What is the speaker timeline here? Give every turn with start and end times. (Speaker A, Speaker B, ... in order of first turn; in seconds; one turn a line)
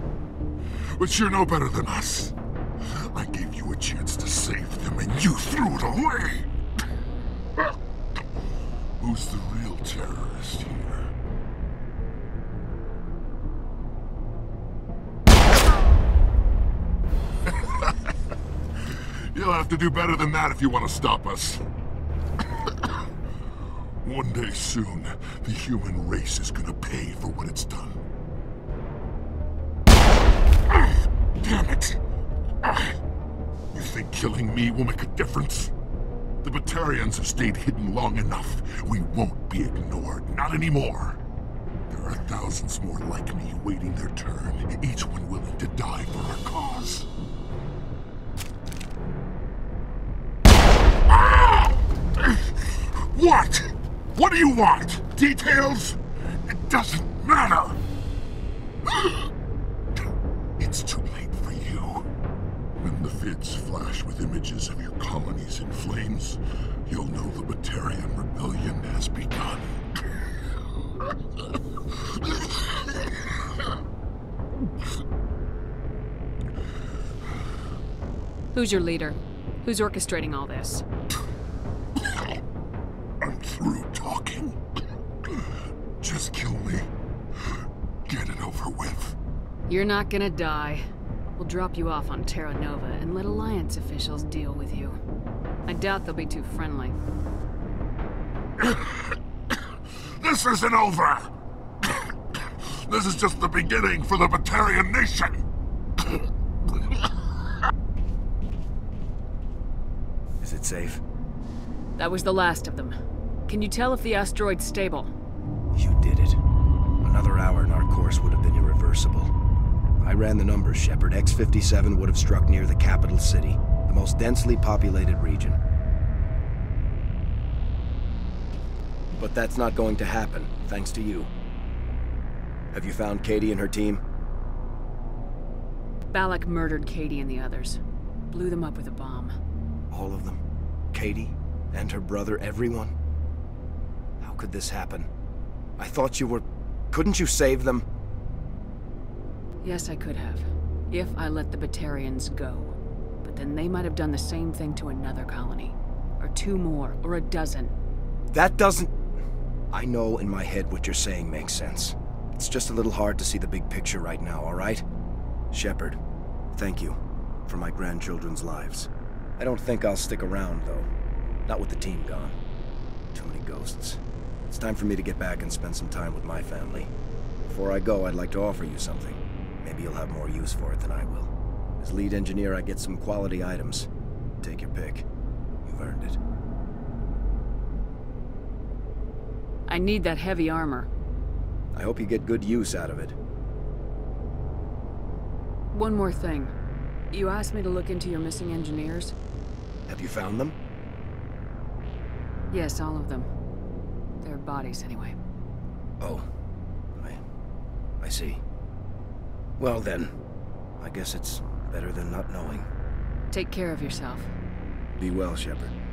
Speaker A: 0.9-6.5
Speaker A: 9.0-11.1
Speaker A: 18.9-21.6
Speaker A: 24.0-28.0
Speaker A: 31.4-32.0
Speaker A: 32.6-33.0
Speaker A: 33.7-35.7
Speaker A: 36.4-41.2
Speaker A: 41.9-47.1
Speaker A: 51.1-57.8
Speaker A: 58.9-59.3
Speaker A: 60.6-62.1
Speaker A: 62.8-69.8
Speaker B: 78.5-80.8
Speaker A: 83.2-84.6
Speaker A: 86.0-86.9
Speaker A: 88.1-89.2
Speaker B: 89.7-90.8
Speaker B: 91.4-95.0
Speaker B: 95.7-97.0
Speaker A: 98.6-99.2
Speaker A: 100.0-101.3
Speaker A: 101.8-105.4
Speaker C: 110.4-111.0
Speaker B: 112.0-113.0
Speaker B: 113.5-115.1
Speaker C: 115.8-116.4
Speaker C: 117.0-119.3
Speaker C: 120.0-125.6
Speaker C: 129.1-131.3
Speaker C: 132.7-134.0
Speaker B: 136.1-139.3
Speaker C: 139.9-140.4
Speaker C: 140.9-142.9
Speaker C: 144.2-145.1
Speaker C: 145.8-147.9
Speaker B: 149.6-157.7
Speaker C: 158.3-158.9
Speaker C: 159.7-164.8
Speaker C: 165.5-166.0
Speaker C: 166.5-170.9
Speaker C: 171.5-172.4
Speaker C: 173.1-176.9
Speaker C: 177.5-183.9
Speaker C: 184.4-185.1
Speaker C: 185.7-186.2
Speaker B: 189.7-190.9
Speaker C: 191.7-193.2
Speaker B: 195.7-196.5
Speaker B: 197.1-199.2
Speaker C: 199.9-200.6
Speaker B: 202.5-203.3
Speaker B: 204.2-205.2
Speaker C: 206.0-206.3
Speaker C: 207.0-207.2
Speaker C: 208.0-208.4
Speaker C: 209.6-210.1
Speaker C: 210.8-212.7
Speaker B: 213.3-214.3
Speaker C: 215.0-215.7